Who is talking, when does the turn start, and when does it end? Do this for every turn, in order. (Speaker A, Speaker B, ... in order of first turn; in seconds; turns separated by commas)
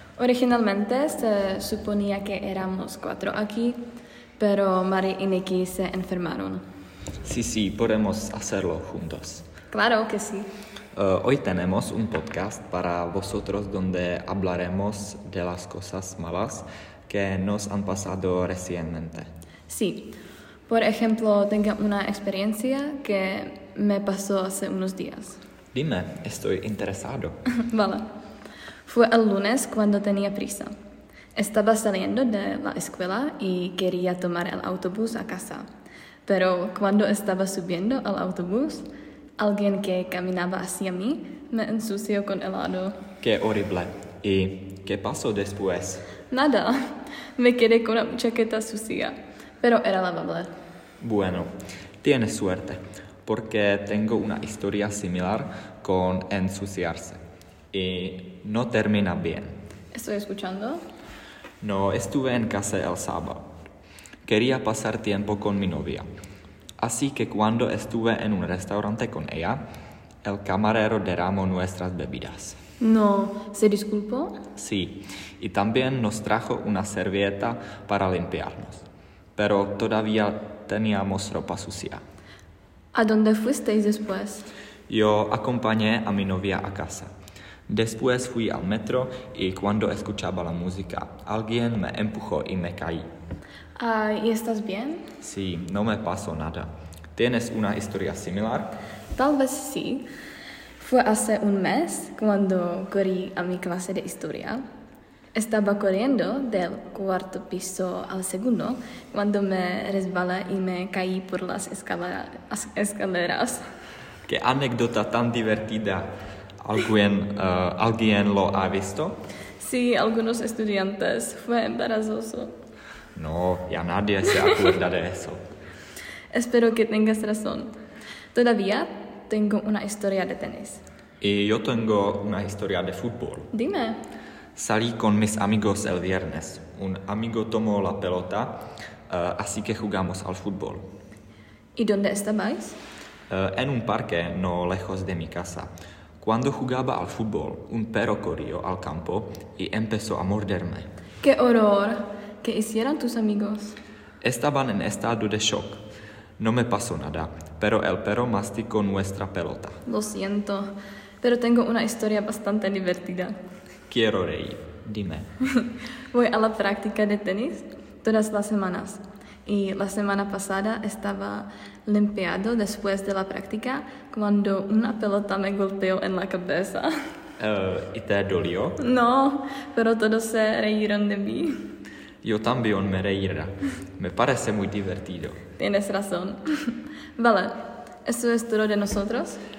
Speaker A: 0.2-3.8, Speaker A: 4.4-6.6, Speaker B: 7.2-9.4, Speaker A: 9.7-10.5, Speaker B: 11.0-19.3, Speaker A: 19.7-20.1, Speaker A: 20.7-25.4, Speaker B: 25.7-27.4, Speaker A: 27.6-28.1, Speaker A: 28.9-30.7, Speaker A: 31.4-35.7, Speaker A: 36.3-38.9, Speaker A: 39.4-43.0, Speaker B: 43.2-46.0, Speaker A: 46.3-46.8, Speaker A: 47.4-50.5, Speaker B: 51.0-51.5, Speaker B: 52.0-57.2, Speaker B: 57.7-59.5, Speaker A: 59.9-60.8, Speaker B: 61.6-63.5, Speaker B: 64.3-66.1, Speaker B: 66.8-69.6, Speaker B: 70.2-72.6, Speaker A: 72.8-74.4, Speaker B: 74.6-78.8, Speaker B: 79.4-82.0, Speaker A: 82.9-84.5, Speaker B: 84.9-87.1, Speaker B: 87.7-93.0, Speaker A: 93.8-95.0, Speaker B: 95.2-98.7, Speaker A: 99.2-100.1, Speaker A: 100.8-104.6, Speaker A: 105.3-113.6, Speaker B: 114.3-116.1, Speaker B: 116.6-119.2, Speaker A: 119.6-122.5, Speaker B: 123.2-125.4, Speaker A: 126.3-127.7, Speaker A: 128.3-130.8, Speaker B: 131.2-133.5, Speaker A: 133.5-134.0, Speaker B: 134.6-138.6, Speaker B: 139.1-140.8, Speaker A: 141.8-142.8, Speaker B: 143.3-145.7, Speaker B: 146.2-150.8, Speaker A: 151.2-153.8, Speaker B: 154.2-155.8, Speaker B: 156.4-159.8, Speaker A: 159.9-160.7, Speaker A: 161.2-163.3, Speaker B: 163.9-165.3, Speaker A: 165.5-176.9, Speaker B: 177.4-178.8, Speaker A: 178.8-181.5, Speaker B: 182.2-185.4, Speaker A: 185.6-187.5, Speaker A: 188.1-189.4